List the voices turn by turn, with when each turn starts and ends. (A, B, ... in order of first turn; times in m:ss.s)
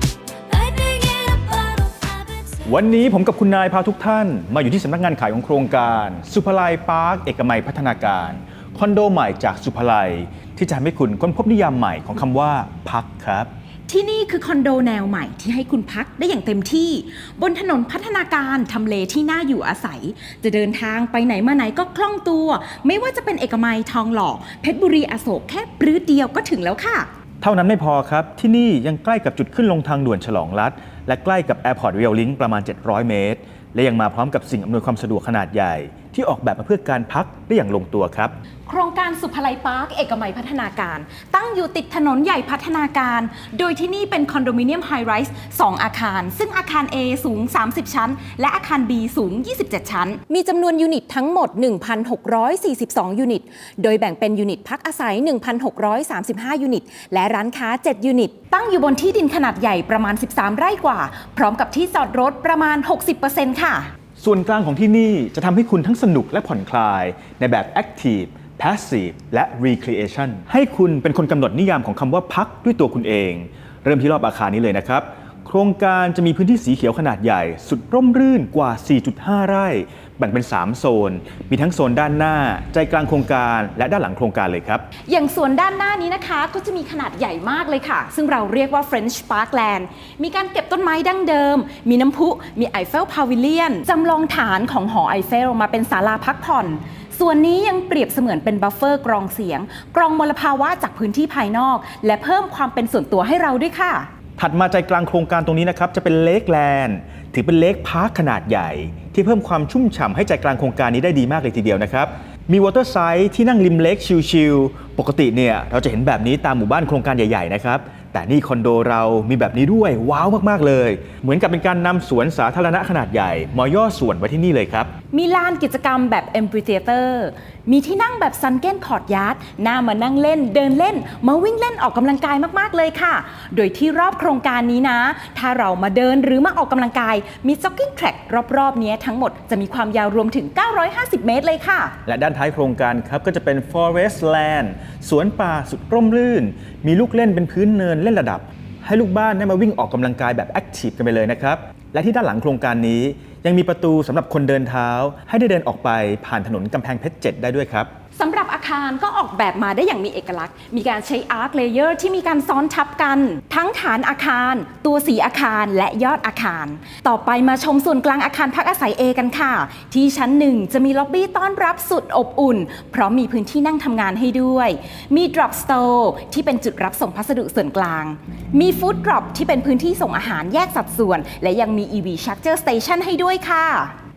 0:00.5-0:02.7 A
0:02.7-0:13.5 B
0:13.9-0:27.1 C
0:27.4-0:38.3 B
0:38.7-1:03.9 C
1:04.2-1:24.8 B
1:25.1-1:44.1 C
1:44.4-2:04.9 B
2:05.1-2:22.0 C
2:22.0-2:37.9 B
2:38.2-3:03.9 C